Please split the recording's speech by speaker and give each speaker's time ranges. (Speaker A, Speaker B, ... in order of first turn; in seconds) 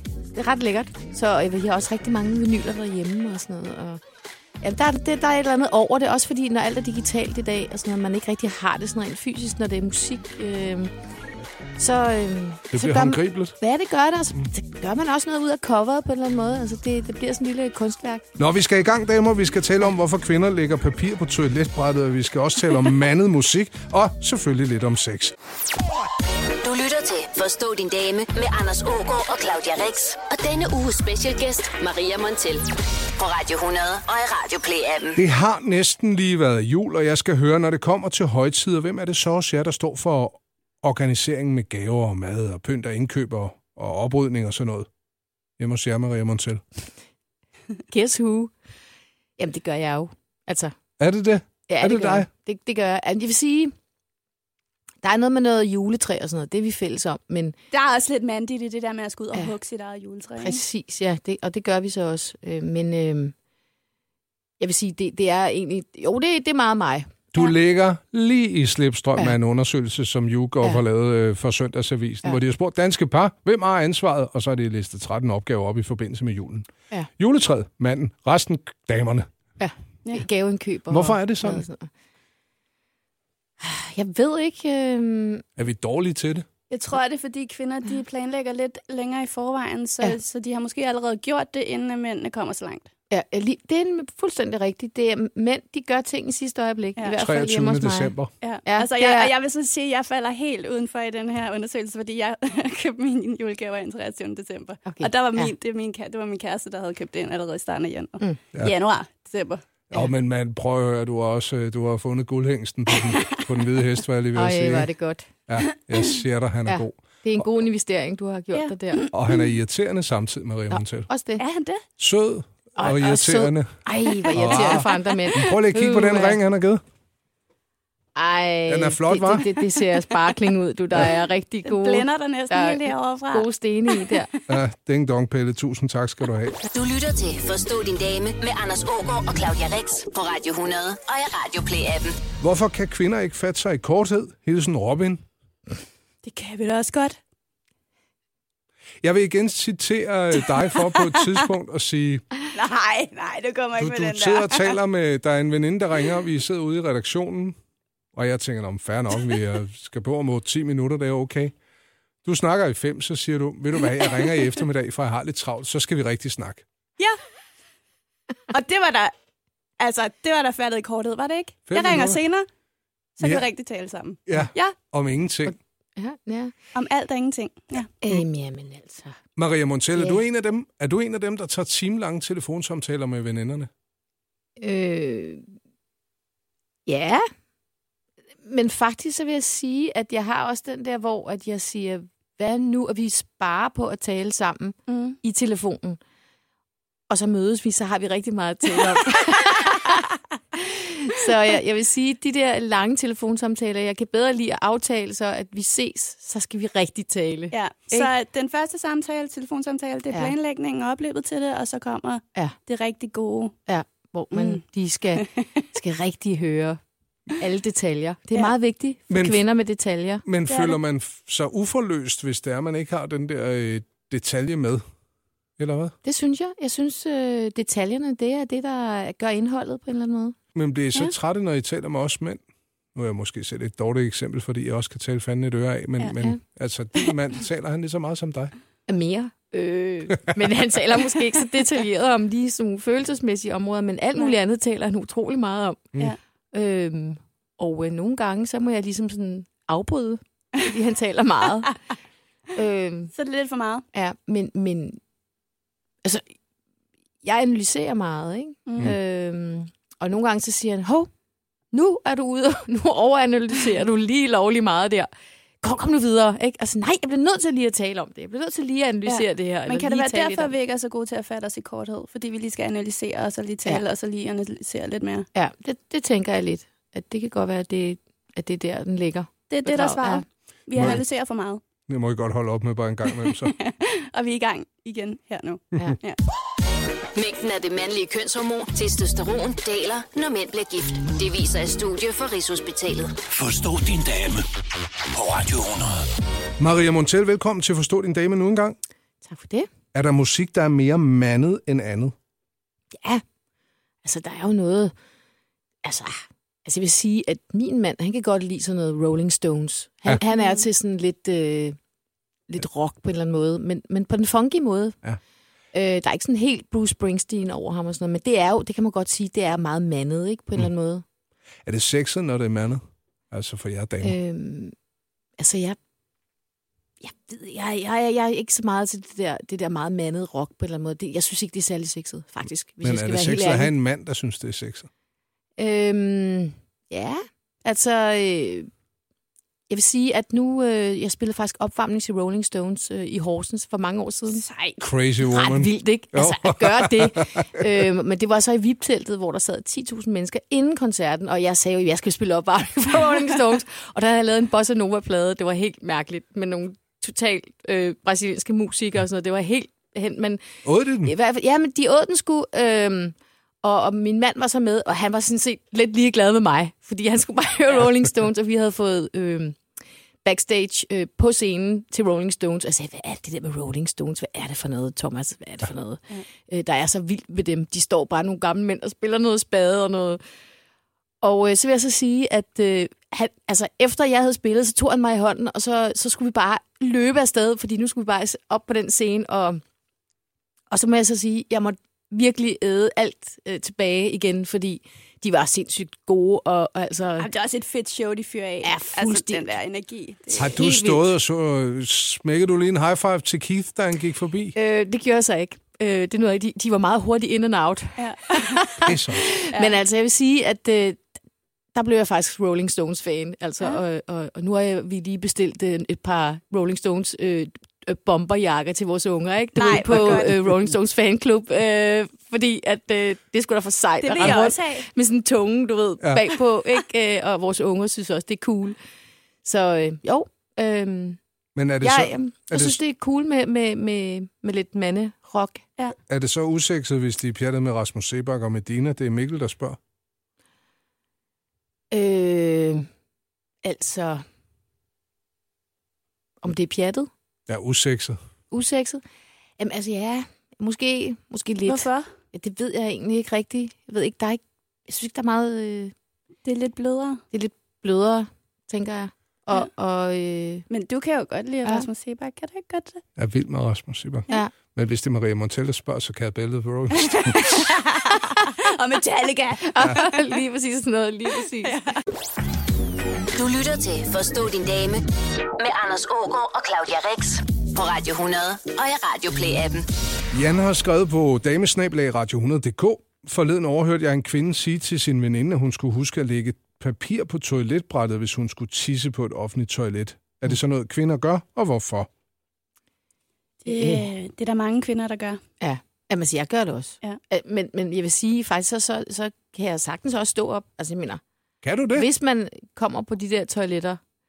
Speaker A: 0.3-4.0, 4.6-10.9, 11.8-18.2, 47.9-48.5, 49.4-50.7, 51.7-53.7, 55.0-57.5, 60.4-63.3, 64.6-67.5, 79.6-81.9, 83.6-85.5, 93.1-98.1, 98.7-99.3, 104.8-105.5, 114.3-115.3, 116.7-119.1, 120.7-121.4, 122.8-126.4, 128.2-134.3, 175.5-176.5, 178.0-179.2, 184.6-185.4, 186.8-187.3, 188.4-196.0, 197.1-208.1, 213.7-220.2, 226.0-230.3, 238.9-245.9, 246.5-251.8, 252.5-253.1, 253.9-255.0, 257.2-261.1, 261.7-265.1, 265.6-270.5, 275.3-280.2, 299.2-299.7, 302.9-303.2, 304.0-304.9, 305.8-311.8, 312.5-315.0, 315.7-321.0, 324.0-324.7, 325.4-325.8, 327.0-333.7, 335.6-338.7, 339.7-344.4, 345.3-360.4, 361.0-369.6, 370.2-380.2, 381.2-389.6, 390.7-397.3, 398.6-399.5, 400.3-401.0, 404.5-411.0, 411.7-428.8, 429.4-431.2, 431.8-435.6, 441.9-442.9, 443.6-444.2, 446.4-447.1, 448.5-449.0, 449.6-455.9, 457.3-460.6, 468.1-468.4, 469.6-471.8, 493.6-494.0, 495.6-501.2, 501.9-504.0
Speaker B: 12.7-13.6, 18.4-25.3, 35.1-44.9, 45.6-46.6, 51.0-52.3, 67.3-79.3, 80.9-81.6, 85.6-86.5, 97.2-98.3, 109.9-114.9, 115.5-117.5, 119.1-121.1, 122.0-126.8, 128.7-129.5, 134.5-136.6, 142.4-145.2, 149.0-152.2, 153.8-157.6, 158.1-161.5, 162.2-166.6, 171.7-172.2, 173.2-173.4, 174.3-175.6, 179.3-183.7, 219.1-219.4, 220.2-224.8, 225.6-225.9, 230.5-232.4, 232.9-238.5, 280.7-281.0, 281.9-283.5, 296.6-298.8, 299.9-302.1, 321.6-324.2, 332.8-334.9, 344.8-347.8, 360.6-361.1, 400.4-404.5, 408.8-409.3, 431.6-432.8, 436.1-439.8, 447.5-448.2, 463.2-467.7, 480.3-492.1, 501.6-502.1
Speaker C: 26.6-35.2, 136.7-142.2, 287.1-293.1, 473.3-475.0, 475.6-479.9
Speaker D: 57.7-60.6, 86.7-92.9, 98.4-109.6, 112.9-113.3, 118.5-119.3, 121.4-121.8, 124.1-125.3, 131.6-134.3, 146.2-147.2, 152.5-154.8, 168.5-169.1, 169.8-172.4, 173.2-174.8, 176.7-177.9, 194.9-195.2, 207.5-213.5, 214.3-214.6, 220.5-220.8, 253.1-253.8, 258.7-258.9, 269.1-275.3, 279.5-281.6, 283.3-286.2, 310.3-310.6, 344.3-344.8, 397.2-400.6, 408.0-408.6, 419.6-420.5, 424.0-424.9, 451.6-452.1, 456.4-457.2, 460.7-463.0, 466.9-470.2, 471.6-472.0, 493.6-495.4
Speaker E: 293.3-294.4, 295.1-296.1